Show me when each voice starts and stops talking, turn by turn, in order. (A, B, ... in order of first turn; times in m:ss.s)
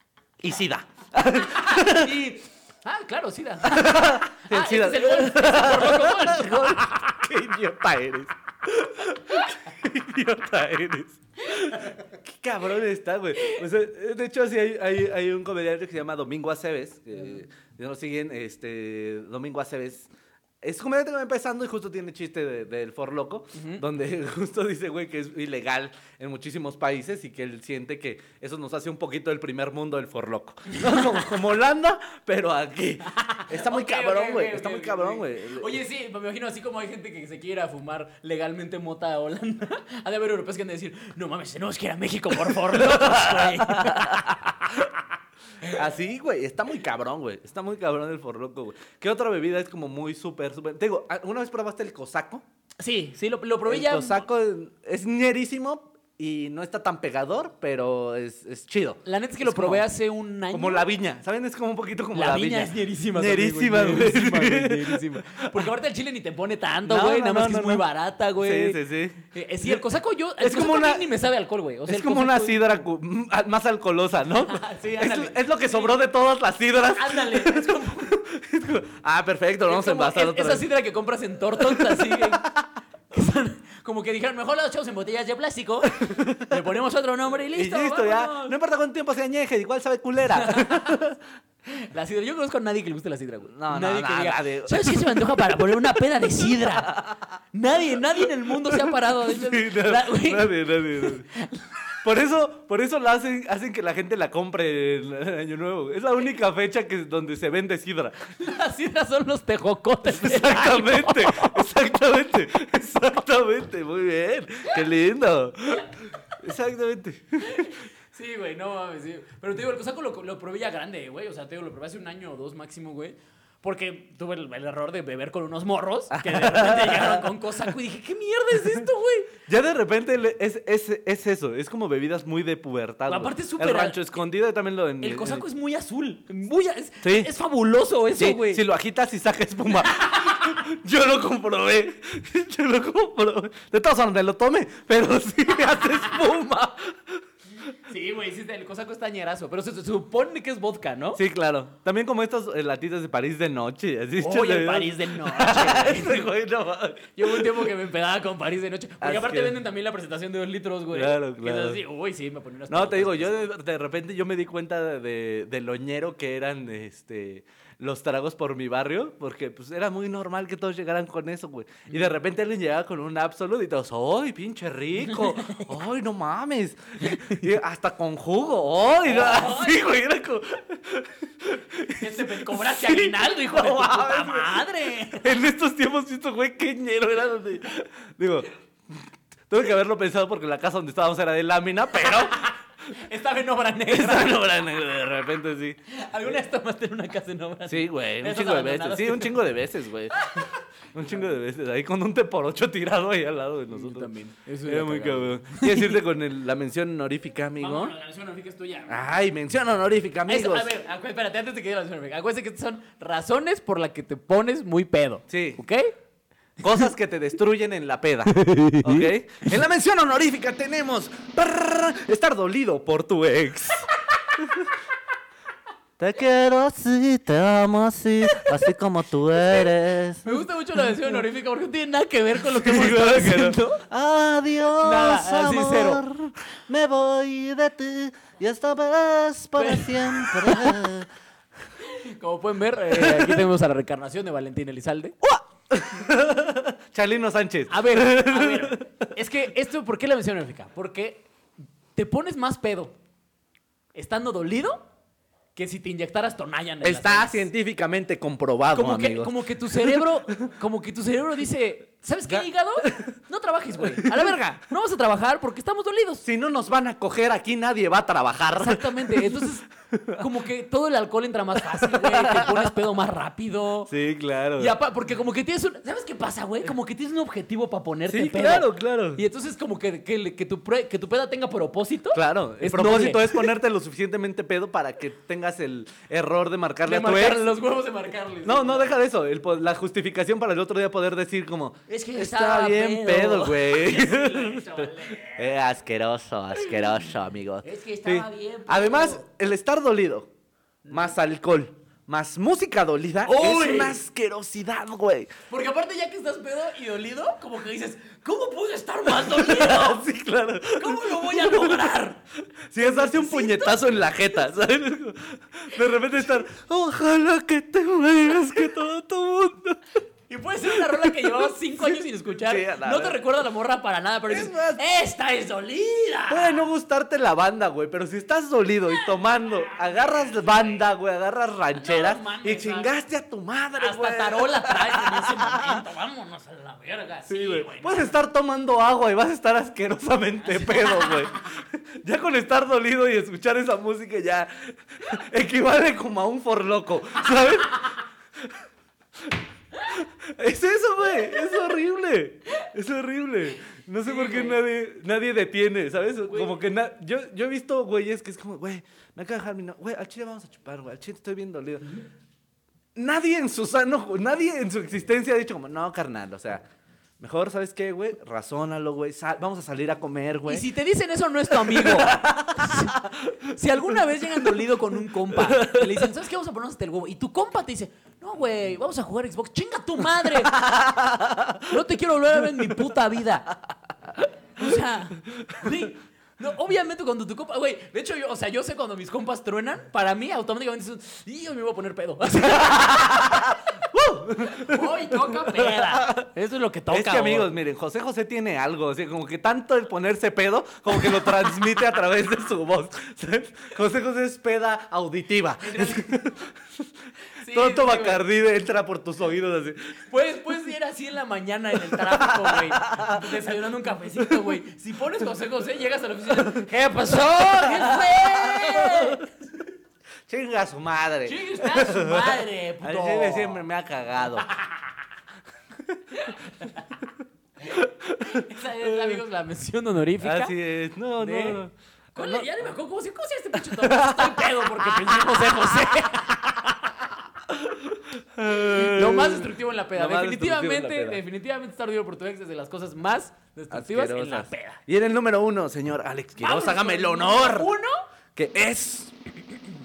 0:00.4-0:02.3 A
0:01.4-0:07.1 B
0:03.6-0:20.1 A
0:20.6-0:35.8 A
0:23.6-0:23.8 B
0:30.7-0:31.4 B
0:33.2-0:44.8 B
0:42.5-0:44.9 A
0:45.6-0:52.4 A
0:52.8-0:54.3 B
0:53.6-0:59.8 A
0:59.1-1:00.9 B
1:00.5-1:05.7 A
1:02.1-1:12.7 B
1:06.9-1:09.8 A
1:10.4-1:11.1 A
1:11.9-1:20.6 A
1:14.4-1:16.0 B
1:16.9-1:18.2 B
1:19.7-1:22.5 B
1:21.6-1:22.7 A
1:23.1-1:28.6 B
1:26.0-1:26.6 A
1:27.5-1:31.2 A
1:30.3-1:31.0 B
1:31.6-1:37.0 B
1:33.5-1:35.2 A
1:36.2-1:37.3 A
1:37.5-1:41.9 B
1:38.2-1:41.3 A
1:42.0-1:48.3 A
1:48.4-1:51.7 B
1:50.1-1:57.7 A
1:57.4-2:09.3 B
2:06.1-2:07.4 A
2:09.5-2:15.4 A
2:13.1-2:14.0 B
2:15.0-2:18.6 B
2:17.0-2:17.3 A
2:18.2-2:27.2 A
2:19.9-2:20.6 B
2:27.7-2:31.2 B
2:31.2-2:37.7 A
2:34.2-2:36.3 B
2:37.2-2:43.5 B
2:39.0-2:39.6 A
2:40.9-2:41.8 A
2:42.7-3:12.5 A
2:55.1-2:55.7 B
2:57.0-2:57.4 B
2:59.0-2:59.8 B
3:01.9-3:05.3 B
3:12.0-3:14.4 B
3:13.9-3:15.8 A
3:15.9-3:19.5 B
3:17.7-3:24.1 A
3:20.2-3:20.6 B
3:23.7-3:26.0 B
3:24.6-3:27.9 A
3:27.6-3:29.1 B
3:28.9-3:30.7 A
3:30.3-3:35.9 B
3:35.3-3:35.6 A
3:36.6-3:44.7 A
3:38.4-3:39.0 B
3:46.0-3:50.3 A
3:48.3-3:48.7 B
3:50.2-3:53.8 B
3:50.8-3:51.2 A
3:52.4-4:01.1 A
3:54.8-3:56.0 B
3:59.6-4:00.9 B
4:01.8-4:05.2 B
4:02.9-4:03.4 A
4:05.2-4:08.9 A
4:07.7-4:11.3 B
4:12.0-4:13.0 B
4:13.9-4:14.9 B
4:15.6-4:17.5 B
4:16.8-4:20.5 A
4:18.7-4:26.2 B
4:22.3-4:23.1 A
4:23.8-4:24.4 A
4:26.2-4:30.3 A
4:28.6-4:33.9 B
4:31.6-4:32.7 A
4:33.9-4:34.7 A
4:34.6-4:43.5 B
4:38.1-4:39.2 A
4:42.1-4:47.5 A
4:46.8-4:49.0 B
4:48.4-5:00.3 A
4:51.9-4:55.5 B
4:57.6-4:59.2 B
5:00.8-5:01.1 B
5:00.9-5:05.3 A
5:03.2-5:04.0 B
5:05.5-5:10.1 B
5:09.1-5:12.0 A
5:10.8-5:12.2 B
5:12.7-5:20.0 A
5:12.8-5:14.1 B
5:20.3-5:26.7 B
5:20.7-5:23.2 A
5:24.3-5:24.8 A
5:26.3-5:35.8 A
5:29.0-5:30.8 B
5:31.7-5:32.9 B
5:33.8-5:38.1 B
5:37.3-5:48.6 A
5:40.4-5:41.4 B
5:49.2-6:02.0 A
5:54.0-5:54.6 B
5:56.3-5:56.6 B
6:03.0-6:06.6 A
6:07.2-6:10.7 A
6:10.5-6:20.6 B
6:11.5-6:13.5 A
6:15.3-6:16.1 A
6:20.2-6:21.8 A
6:21.6-6:23.5 B
6:22.4-6:22.9 A
6:24.2-6:33.9 B
6:25.3-6:25.7 A
6:32.4-6:36.3 A
6:34.4-6:37.5 B
6:36.9-6:46.9 A
6:45.6-6:46.1 B
6:47.4-6:48.2 B
6:47.5-6:50.0 A
6:50.1-6:59.7 B
6:51.9-6:53.5 A
6:56.4-6:59.2 A
7:00.3-7:04.5 A
7:01.2-7:03.6 B
7:04.4-7:04.9 B
7:06.1-7:06.8 B
7:07.6-7:09.2 A
7:07.7-7:10.5 B
7:10.2-7:12.5 A
7:11.2-7:11.6 B
7:12.1-7:17.1 B
7:13.6-7:16.0 A
7:17.5-7:21.2 A
7:18.5-7:24.8 B
7:23.7-7:27.7 A
7:26.4-7:28.0 B
7:28.4-7:29.2 A